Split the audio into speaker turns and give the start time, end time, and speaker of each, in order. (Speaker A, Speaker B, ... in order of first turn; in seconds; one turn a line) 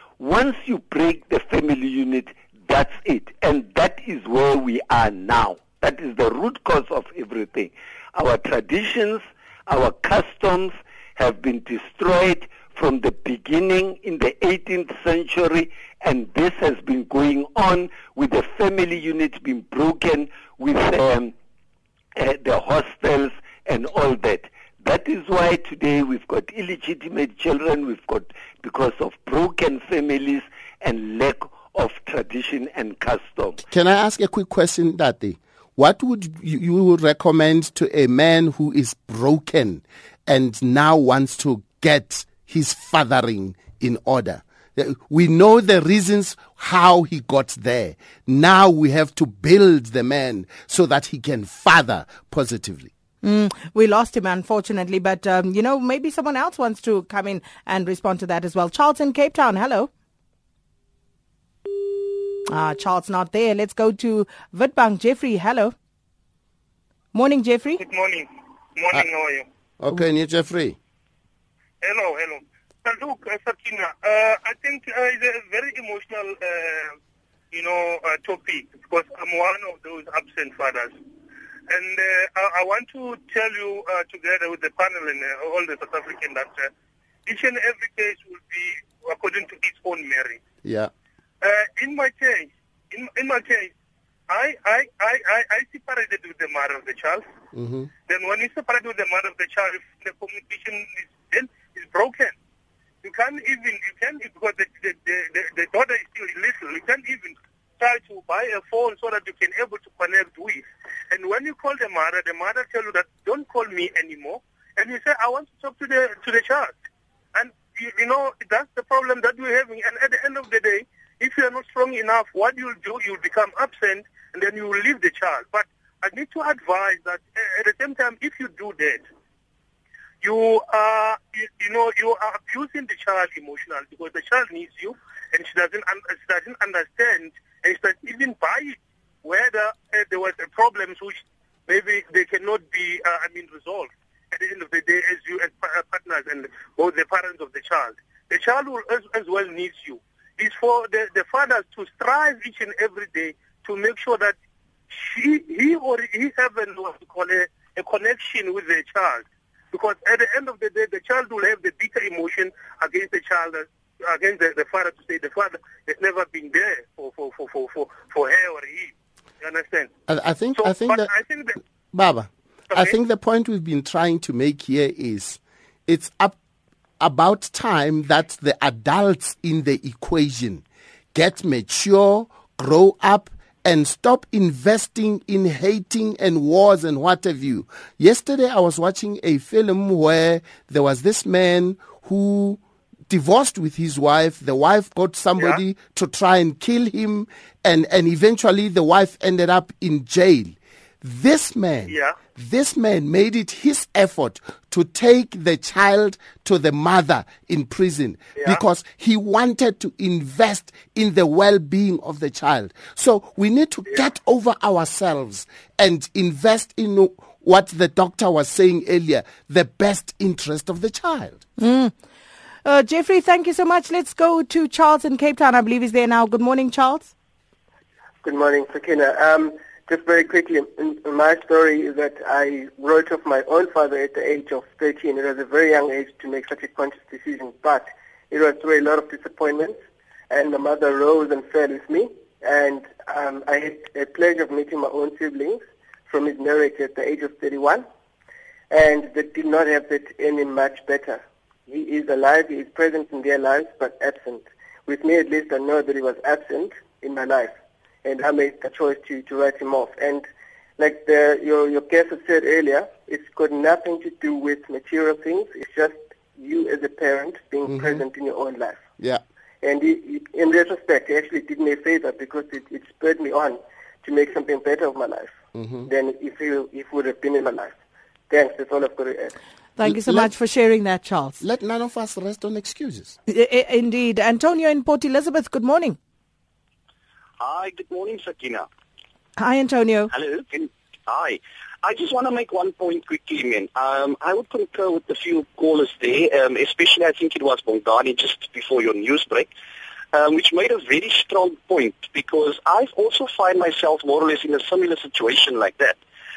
Speaker A: 0.2-21.3
Speaker A: 22.1-33.6
Speaker B: 33.7-52.9
Speaker C: 53.2-59.9
Speaker C: 62.5-65.7
Speaker C: 67.1-67.8
Speaker D: 67.8-69.5
Speaker B: 69.8-70.8
Speaker D: 71.8-77.0
Speaker D: 77.5-81.0
Speaker D: 81.7-86.7
Speaker D: 87.2-90.4
Speaker B: 90.6-90.9
Speaker D: 91.4-93.7
Speaker D: 94.3-97.2
Speaker B: 97.5-97.9
Speaker D: 98.1-102.3
Speaker D: 103.0-116.8
Speaker D: 117.3-129.1
Speaker D: 130.2-154.3
Speaker D: 154.9-169.9
Speaker B: 170.1-171.1
Speaker D: 170.6-171.6
Speaker B: 171.9-176.4
Speaker D: 172.7-173.0
Speaker B: 177.0-221.4
Speaker D: 201.9-202.2
Speaker C: 221.6-221.9
Speaker C: 222.6-227.1
Speaker E: 228.2-239.8
Speaker E: 240.3-247.8
Speaker E: 248.7-260.3
Speaker E: 260.8-268.8
Speaker B: 267.6-268.0
Speaker E: 269.6-275.3
Speaker B: 275.5-275.9
Speaker E: 275.9-277.7
Speaker E: 278.3-279.3
Speaker C: 279.8-281.4
Speaker B: 279.8-280.3
Speaker B: 281.4-283.1
Speaker C: 283.3-286.0
Speaker F: 287.4-288.7
Speaker C: 289.4-290.1
Speaker F: 290.1-299.5
Speaker F: 300.1-306.0